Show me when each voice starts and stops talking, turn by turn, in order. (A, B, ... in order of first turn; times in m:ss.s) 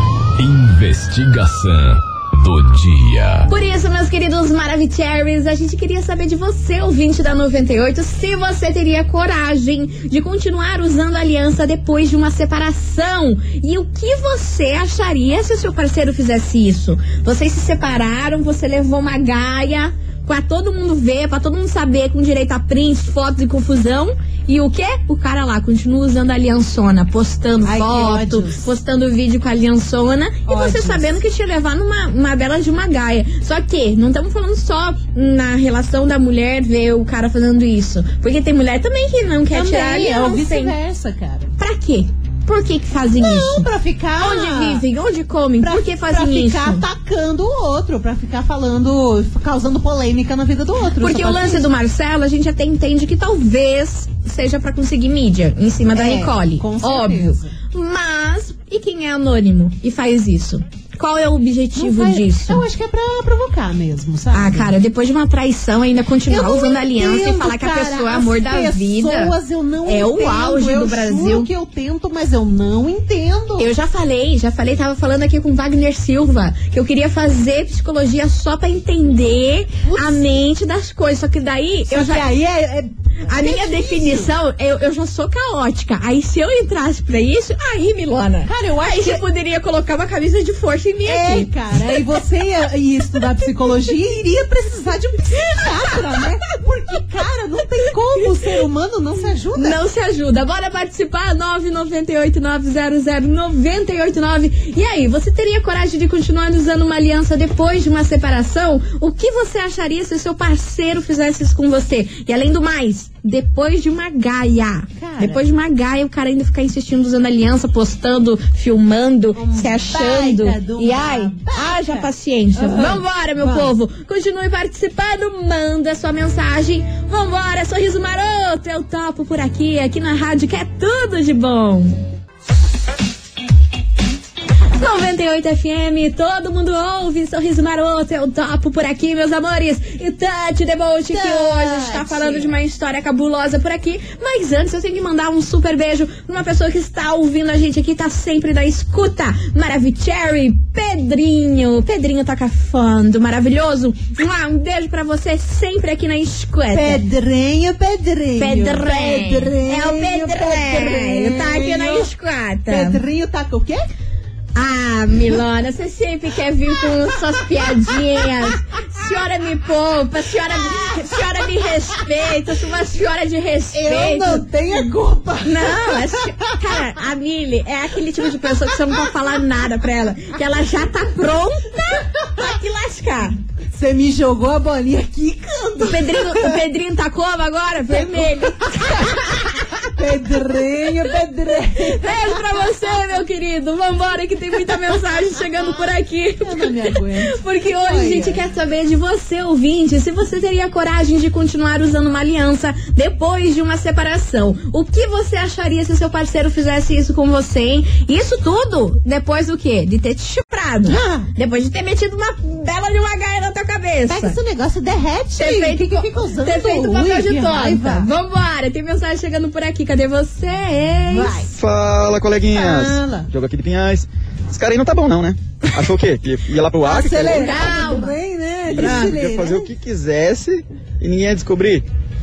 0:00.4-0:03.5 A
0:03.5-0:40.7 B
0:27.6-0:28.7 C
0:30.5-0:31.2 C
0:39.5-0:41.5 C
0:41.6-0:43.7 B
0:43.2-0:44.8 C
0:44.2-0:46.8 B
0:45.6-0:51.6 C
0:51.0-1:02.6 B
0:55.9-0:57.5 C
1:01.8-1:04.7 C
1:04.3-1:11.5 B
1:06.3-1:13.7 C
1:13.6-1:22.2 B
1:19.8-1:20.2 C
1:21.9-1:24.3 C
1:23.3-1:32.0 B
1:28.4-1:29.2 C
1:31.0-1:39.8 C
1:39.6-2:12.0 B
1:55.0-1:55.4 C
1:59.4-2:03.7 C
2:14.8-2:37.0 B
2:21.1-2:22.5 C
2:36.7-2:42.1 C
2:38.4-2:43.0 B
2:42.7-2:43.9 C
2:44.5-2:54.5 B
2:47.9-2:48.3 C
2:50.6-2:51.2 C
2:53.7-2:56.2 C
2:55.4-3:03.4 B
3:03.7-3:06.6 C
3:05.8-3:09.6 B
3:07.9-3:09.3 C
3:09.8-3:12.5 C
3:11.9-3:34.4 B
3:16.4-3:18.4 C
3:30.8-3:31.3 C
3:34.1-3:38.1 C
3:35.4-3:41.4 B
3:41.1-3:41.5 C
3:41.6-3:47.9 D
3:42.5-3:43.3 C
3:46.8-3:49.7 C
3:47.3-3:48.2 B
3:48.7-3:51.8 D
3:48.7-3:49.1 B